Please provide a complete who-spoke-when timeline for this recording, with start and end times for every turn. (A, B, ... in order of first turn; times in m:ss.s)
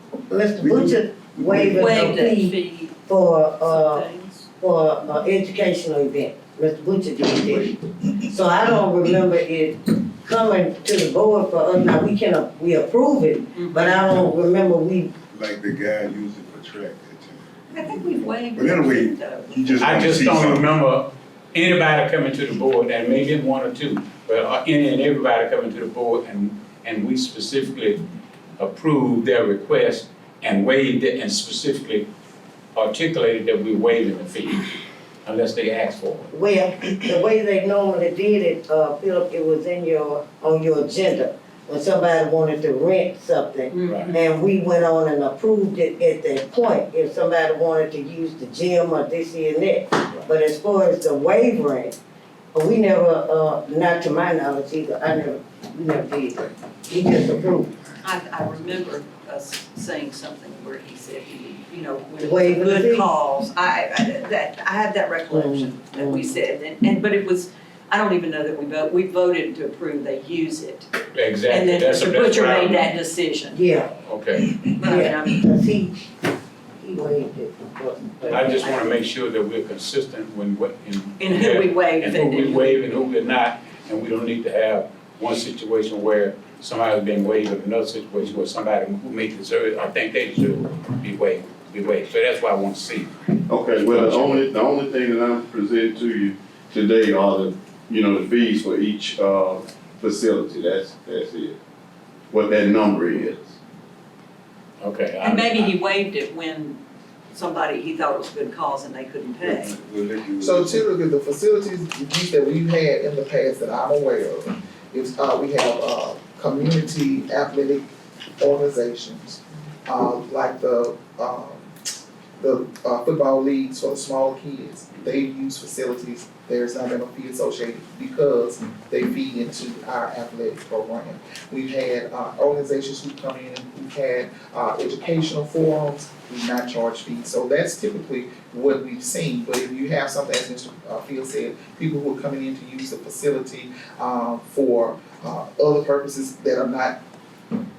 0:00.3-0:04.1 A
0:00.6-0:02.0 B
0:01.7-0:03.0 C
0:03.6-0:04.5 C
0:04.6-0:15.1 A
0:13.6-0:14.1 C
0:15.3-0:20.7 B
0:17.7-0:19.6 C
0:19.8-0:28.0 D
0:28.6-0:32.0 D
0:32.8-0:34.6 D
0:35.2-0:36.3 D
0:36.3-0:52.0 A
0:43.7-0:44.2 C
0:43.9-0:44.1 D
0:52.5-0:57.7 A
0:57.2-0:58.8 B
0:58.0-1:10.9 C
1:02.2-1:03.1 A
1:05.3-1:06.3 A
1:11.1-1:13.0 D
1:11.5-1:13.6 C
1:13.5-1:13.9 A
1:14.0-1:14.6 D
1:14.7-1:15.5 C
1:14.8-1:16.1 A
1:16.8-1:19.0 A
1:18.3-1:34.5 D
1:21.2-1:22.8 C
1:33.5-1:41.6 E
1:42.3-1:43.5 E
1:44.8-1:45.8 D
1:45.2-1:46.8 C
1:47.3-1:49.7 C
1:49.4-1:50.9 B
1:50.4-1:57.9 F
1:58.4-2:01.7 F
2:02.4-2:27.0 F